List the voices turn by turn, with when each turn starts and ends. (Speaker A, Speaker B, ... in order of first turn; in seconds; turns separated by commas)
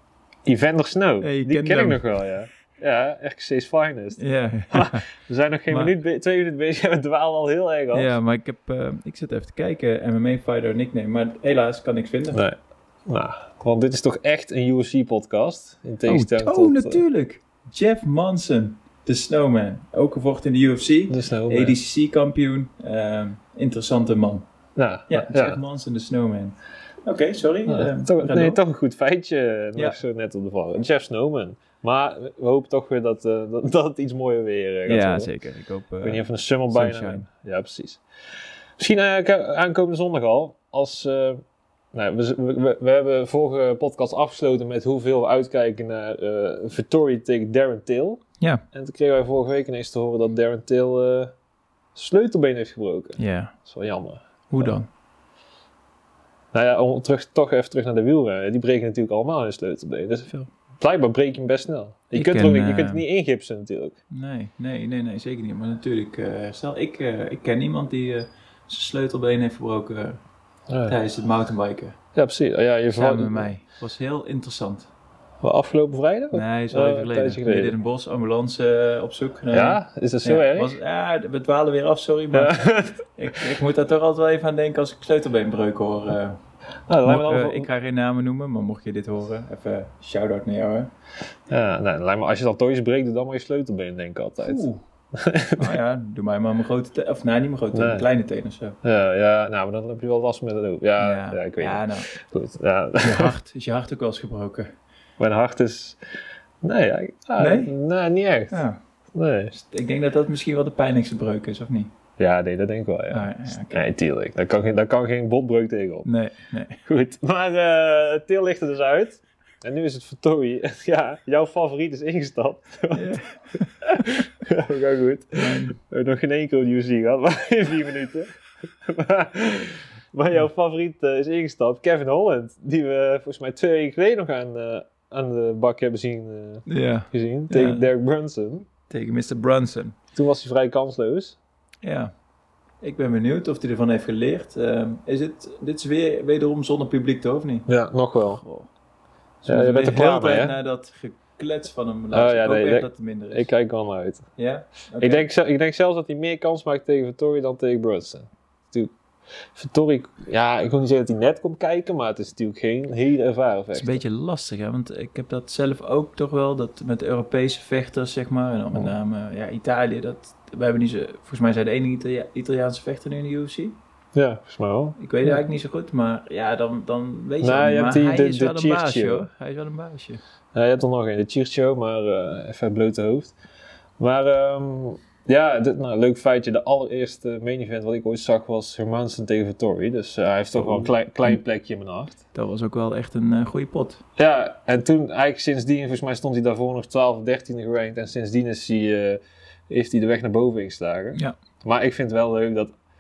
Speaker A: 0.4-8.1, Speaker B: 1.2-2.0, Speaker B: 4.2-5.1, Speaker B: 7.9-12.4, Speaker A: 12.3-17.0, Speaker B: 16.1-24.4, Speaker A: 21.1-21.8, Speaker A: 24.8-25.6, Speaker B: 25.1-28.6, Speaker A: 27.7-35.3, Speaker B: 34.9-37.3, Speaker A: 36.0-38.0, Speaker A: 38.8-48.2, Speaker A: 48.7-51.3, Speaker A: 51.9-54.7, Speaker B: 53.2-53.5, Speaker B: 54.5-54.9, Speaker A: 56.5-64.0, Speaker B: 62.1-63.0, Speaker B: 64.1-70.2, Speaker A: 70.7-71.0, Speaker B: 70.8-72.0, Speaker A: 72.2-73.5, Speaker B: 72.9-74.9, Speaker A: 75.4-77.8, Speaker B: 76.3-86.4, Speaker A: 79.5-80.8, Speaker A: 82.3-83.4, Speaker A: 86.9-87.7, Speaker B: 87.0-90.9, Speaker A: 91.5-95.8, Speaker B: 94.4-94.8, Speaker B: 95.6-98.8, Speaker A: 97.7-98.1, Speaker A: 98.8-103.3, Speaker B: 101.0-102.1, Speaker B: 103.0-104.7, Speaker A: 105.2-106.0, Speaker A: 106.6-108.6, Speaker B: 107.4-107.7, Speaker B: 108.5-108.8, Speaker A: 109.1-109.5, Speaker B: 109.5-111.9, Speaker A: 112.2-116.1, Speaker B: 113.1-113.9, Speaker B: 116.0-116.8, Speaker A: 116.8-123.2, Speaker B: 122.9-124.1, Speaker A: 123.8-138.7, Speaker B: 125.3-125.8, Speaker B: 136.7-137.9, Speaker B: 138.9-140.0, Speaker A: 140.2-141.4, Speaker B: 141.8-142.1, Speaker B: 142.8-147.7, Speaker A: 147.7-148.4, Speaker B: 148.2-148.7, Speaker B: 149.4-153.5, Speaker A: 149.5-150.5, Speaker A: 152.1-154.2, Speaker B: 154.4-155.3, Speaker A: 155.0-158.9, Speaker A: 159.5-164.0, Speaker B: 163.7-173.8, Speaker A: 174.1-175.4, Speaker B: 175.0-180.2, Speaker A: 177.4-179.2, Speaker A: 180.5-183.3, Speaker A: 184.0-192.2, Speaker B: 190.6-191.4, Speaker B: 192.3-194.0, Speaker A: 194.2-202.7